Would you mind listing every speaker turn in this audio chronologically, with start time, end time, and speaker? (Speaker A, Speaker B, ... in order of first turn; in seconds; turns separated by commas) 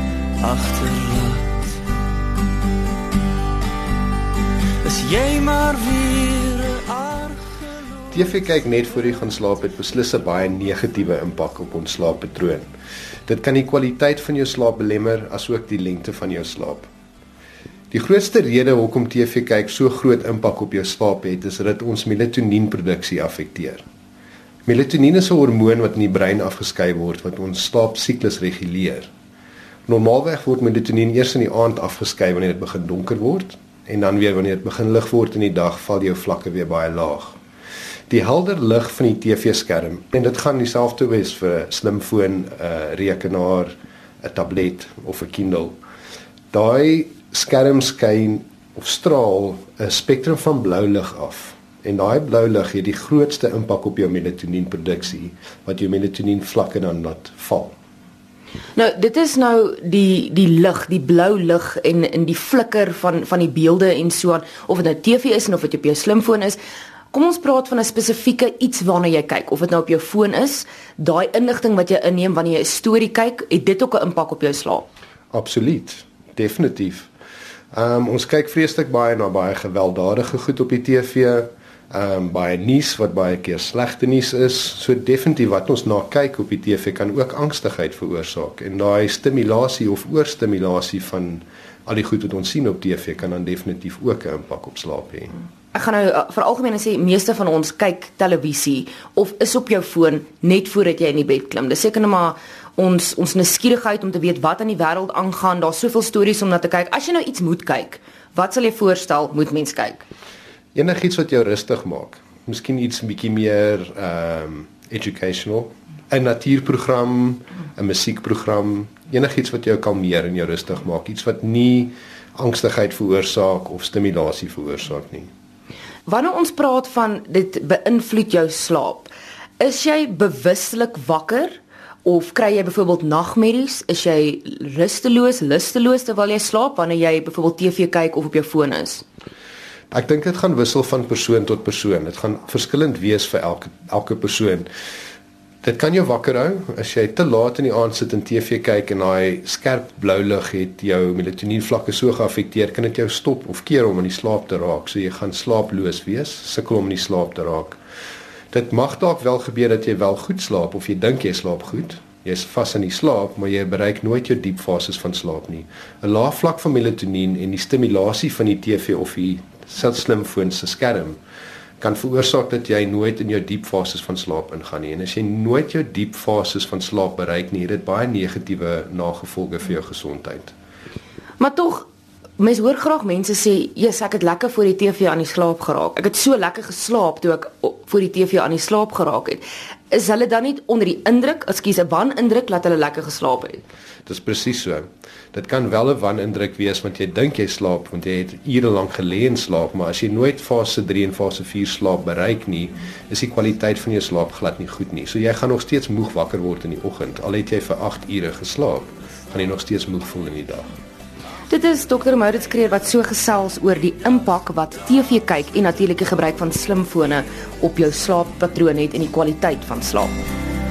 Speaker A: 0.4-1.6, Speaker A: 4.8-8.0, Speaker B: 8.1-12.7, Speaker B: 13.3-16.9, Speaker B: 17.9-23.8, Speaker B: 24.7-29.1, Speaker B: 29.9-37.4, Speaker B: 38.1-45.8, Speaker B: 46.5-57.7, Speaker C: 58.8-66.6, Speaker C: 67.1-74.9, Speaker B: 75.3-77.1, Speaker B: 77.7-95.3, Speaker C: 95.7-110.0, Speaker B: 110.7-125.3, Speaker C: 126.1-139.1, Speaker B: 139.9-144.7, Speaker B: 145.6-157.8, Speaker B: 158.5-171.2, Speaker B: 171.8-180.5, Speaker C: 181.4-181.9, Speaker C: 182.4-193.6, Speaker B: 194.1-210.7, Speaker C: 211.5-220.2